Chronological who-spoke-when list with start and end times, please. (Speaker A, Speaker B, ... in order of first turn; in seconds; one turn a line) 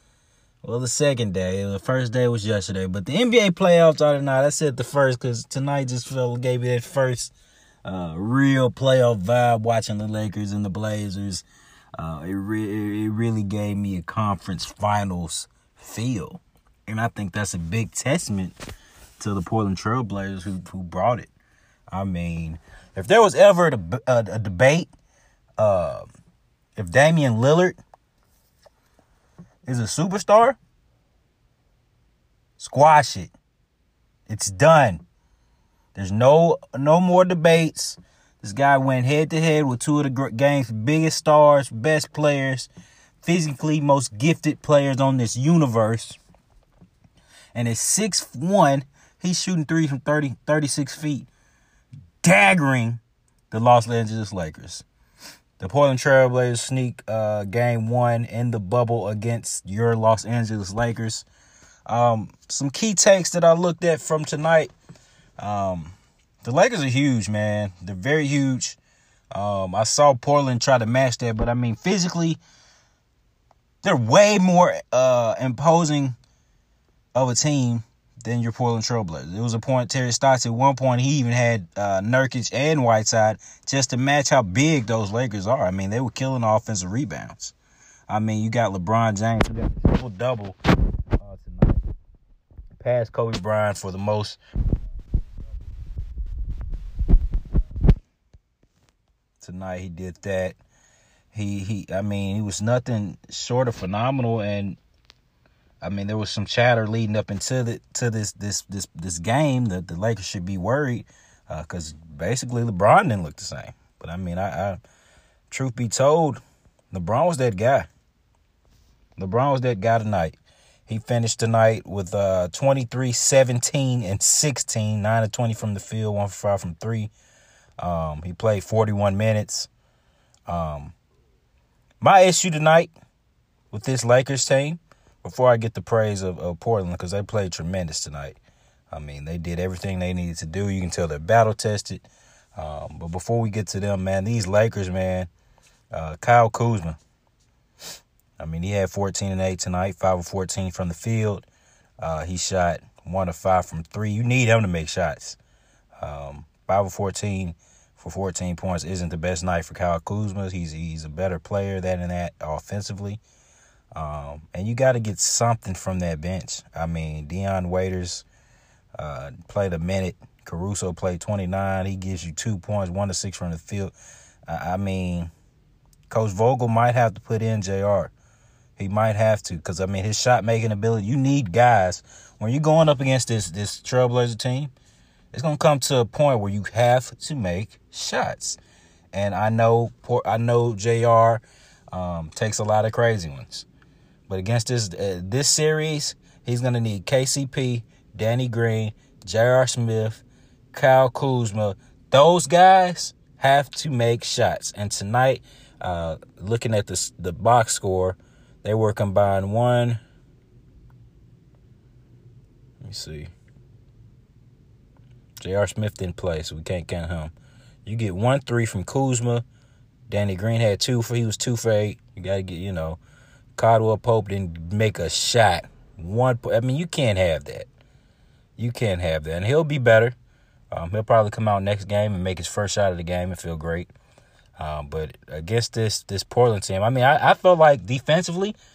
Speaker A: 0.6-7.3
Speaker A: 7.8-11.4
Speaker A: 12.0-18.6
Speaker A: 19.2-21.3
Speaker A: 21.9-24.9
Speaker A: 25.6-26.1
Speaker A: 26.8-27.8
Speaker A: 29.7-30.6
Speaker A: 32.6-33.3
Speaker A: 34.3-35.0
Speaker A: 36.0-42.7
Speaker A: 43.2-46.2
Speaker A: 47.5-51.3
Speaker A: 52.2-54.9
Speaker A: 55.6-61.3
Speaker A: 61.9-64.7
Speaker A: 65.4-68.8
Speaker A: 69.3-72.4
Speaker A: 73.8-76.2
Speaker A: 77.1-87.5
Speaker A: 88.1-90.6
Speaker A: 91.2-91.8
Speaker A: 92.8-94.4
Speaker A: 99.4-100.5
Speaker A: 101.3-104.8
Speaker A: 105.8-114.8
Speaker A: 115.5-116.4
Speaker A: 116.9-117.9
Speaker A: 119.2-120.3
Speaker A: 120.9-127.1
Speaker A: 127.8-129.7
Speaker A: 130.5-130.9
Speaker A: 132.0-132.9
Speaker A: 133.7-138.4
Speaker A: 138.9-142.0
Speaker A: 142.6-145.3
Speaker A: 145.9-147.0
Speaker A: 148.4-151.4
Speaker A: 152.0-155.4
Speaker A: 156.0-163.2
Speaker A: 163.9-168.2
Speaker A: 168.9-173.9
Speaker A: 174.5-175.3
Speaker A: 176.1-178.1
Speaker A: 178.8-184.7
Speaker A: 185.3-188.6
Speaker A: 189.1-193.7
Speaker A: 194.3-210.0
Speaker A: 212.8-213.3
Speaker A: 215.4-217.3
Speaker A: 217.8-219.4
Speaker A: 220.1-223.0
Speaker A: 223.6-227.7
Speaker A: 228.6-230.1
Speaker A: 230.7-233.9
Speaker A: 234.6-238.6